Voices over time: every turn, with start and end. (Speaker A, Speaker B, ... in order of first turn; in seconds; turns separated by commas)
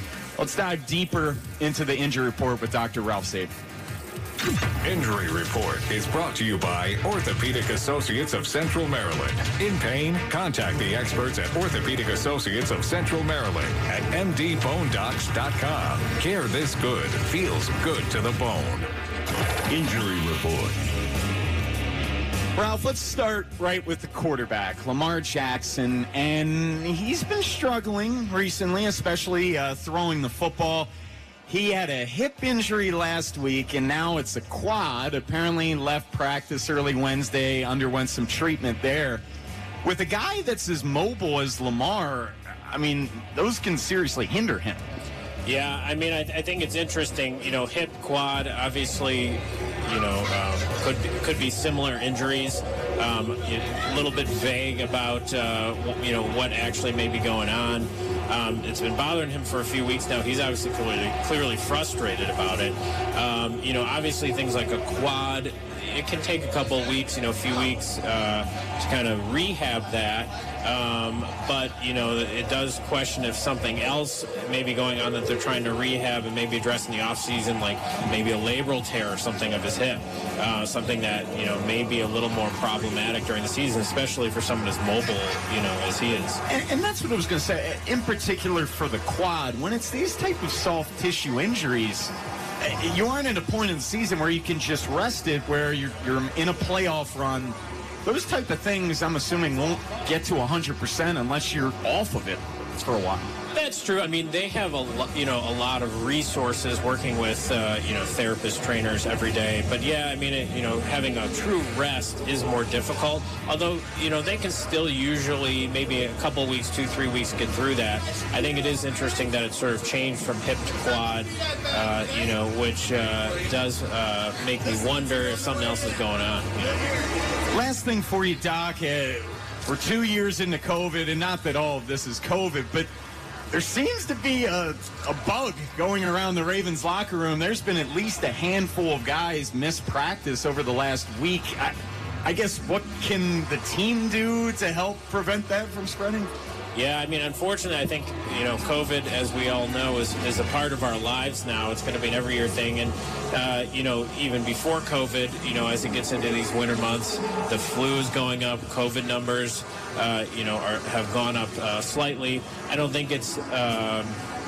Speaker A: 0.4-3.5, Speaker B: 4.8-18.9, Speaker B: 19.7-20.7, Speaker A: 22.6-30.9, Speaker A: 31.5-39.2, Speaker A: 39.8-44.8, Speaker C: 45.4-86.4, Speaker A: 86.5-103.3, Speaker C: 103.5-127.0, Speaker A: 127.5-132.9, Speaker A: 133.5-146.3, Speaker C: 146.7-164.2